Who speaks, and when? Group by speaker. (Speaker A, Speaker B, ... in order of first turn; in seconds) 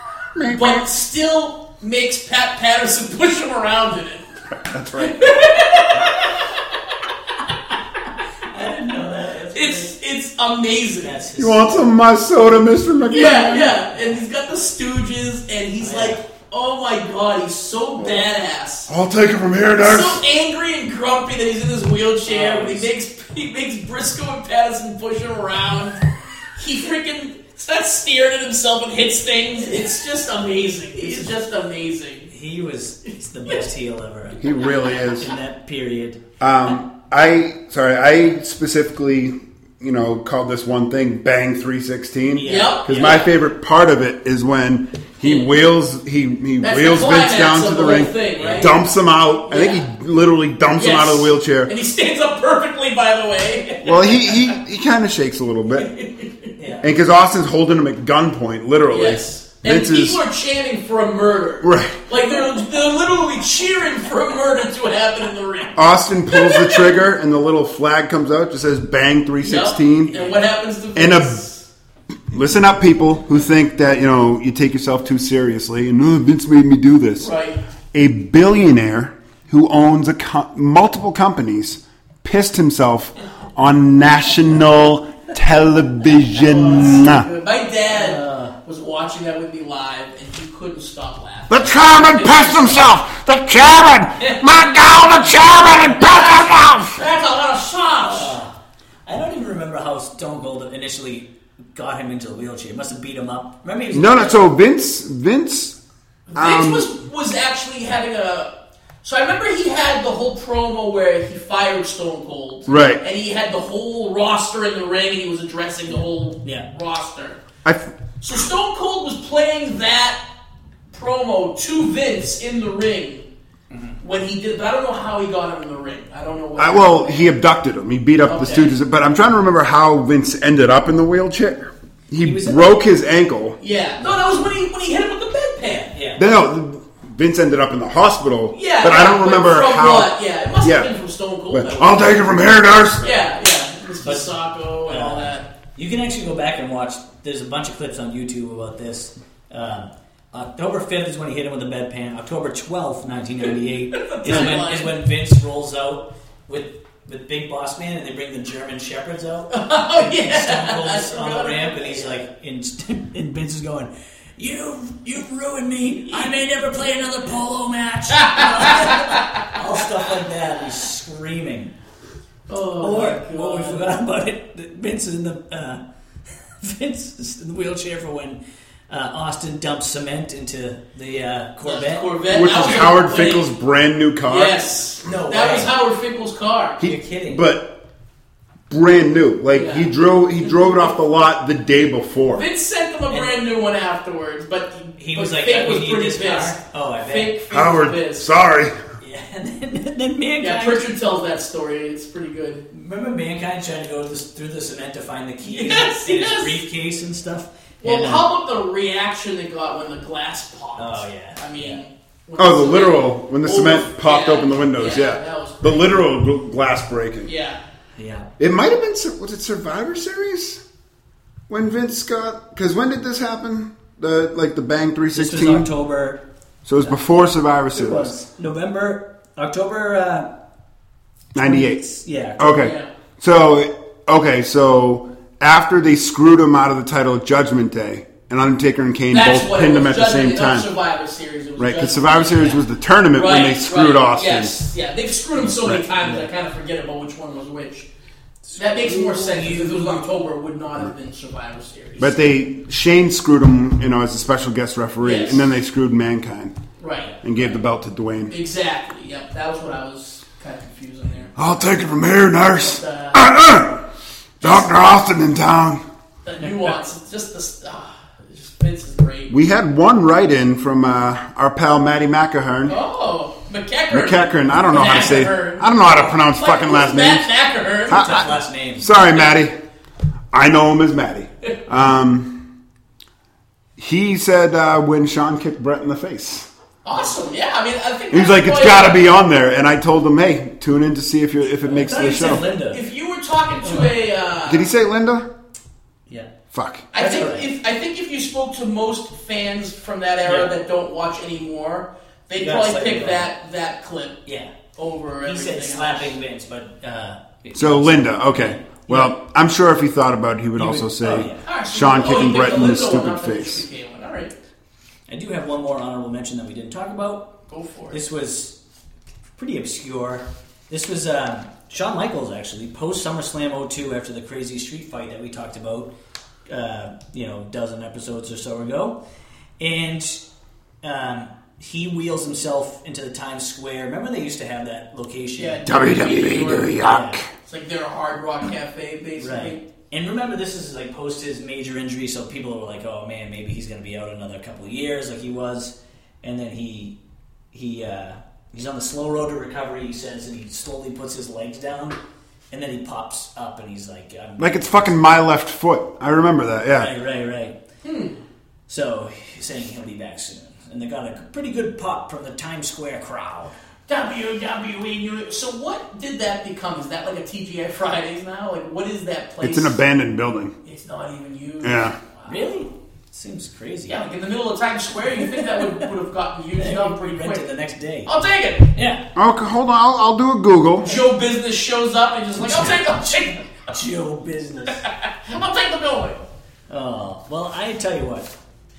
Speaker A: 0.3-0.8, 4.5-5.4, 11.4-13.8, 18.0-18.2, 18.9-20.2, 34.4-35.3, 36.4-51.7, 53.8-55.9, 56.8-60.2, 61.6-62.0, 65.8-70.2, 70.9-71.4, 72.3-77.3, 77.9-87.3, 91.5-97.0, 103.9-105.8, 106.3-106.9, 112.7-113.0, 117.6-117.9, 126.6-133.6, 136.2-140.9, 141.5-143.1, 154.2-154.6, 182.3-184.6, 186.8-187.7, 188.7-192.4, 197.5-198.8, 212.4-217.3, 218.4-220.6, 221.5-225.7, 226.6-228.1, 231.3-231.8, 232.4-240.7, 241.6-244.5, 245.6-245.9, 252.0-256.6, 257.2-258.3, 261.4-263.8, 264.4-265.8, 269.3-272.8, 273.9-277.3, 277.9-279.6, 280.3-282.4, 283.8-286.5, 288.1-292.5, 294.4-295.3, 296.5-296.9, 307.5-313.6, 335.6-337.3, 354.4-356.9, 369.4-370.5, 371.6-371.9, 379.1-380.9
Speaker B: 0.4-4.2, 5.0-6.5, 9.5-11.2, 13.1-18.9, 19.8-26.0, 26.6-32.3, 34.6-35.2, 42.4-43.3, 45.2-45.5, 46.6-48.7, 49.5-49.9, 50.7-54.5, 55.7-56.5, 58.9-67.0, 69.4-71.7, 77.2-77.6, 86.3-92.9, 94.2-94.5, 95.1-98.4, 106.3-117.4, 118.2-120.2, 120.9-123.2, 124.0-127.3, 128.2-128.7, 133.6-135.9, 138.5-142.2, 143.0-145.5, 153.9-154.9, 159.5-162.2, 168.1-169.3, 172.5-173.8, 181.6-183.5, 184.2-186.8, 189.5-189.9, 190.4-190.8, 192.3-198.3, 200.4-202.6, 205.4-206.6, 207.8-215.9, 217.2-217.6, 232.5-232.9, 239.1-242.6, 243.1-247.9, 248.5-252.2, 255.0-255.4, 256.8-257.1, 258.3-261.5, 262.5-263.2, 264.4-264.7, 266.2-269.3, 272.7-278.3, 286.8-289.1, 292.1-294.7, 296.9-304.2, 304.8-306.1, 311.4-314.3, 317.5-318.0, 335.4-336.8, 337.4-339.6, 357.8-358.1, 363.9-369.8, 370.6-372.4, 373.9-377.5, 378.1-378.7, 380.8-383.4, 385.0-386.3
Speaker C: 8.5-9.9, 11.0-11.9, 15.8-16.2, 22.2-22.9, 31.0-31.3, 32.3-34.5, 35.2-36.2, 42.3-43.2, 48.3-48.7, 56.6-56.9, 70.1-70.4, 87.9-88.5, 98.0-98.5, 99.0-104.5, 123.7-124.0, 132.2-132.8, 135.9-136.2, 144.0-144.3, 144.8-171.7, 172.8-175.8, 176.6-182.1, 185.0-185.7, 186.8-187.4, 193.1-193.4, 195.0-197.3, 199.0-200.9, 202.7-208.3, 210.8-211.8, 217.9-218.3, 225.1-226.2, 227.7-230.3, 231.4-232.5, 248.4-250.0, 277.9-278.9, 291.6-292.8, 293.6-293.9, 296.9-297.5, 300.2-300.5, 302.4-303.3, 304.2-304.5, 305.2-309.1, 310.6-311.4, 315.1-317.3, 317.9-318.6, 319.4-325.9, 326.5-329.0, 329.6-330.2, 330.8-335.6, 336.8-337.2, 339.2-347.0, 347.5-352.0, 352.5-355.1, 356.7-357.6, 358.7-363.5, 372.3-374.0, 375.4-375.8, 376.6-378.1, 378.7-379.0, 382.4-384.8, 386.7-388.3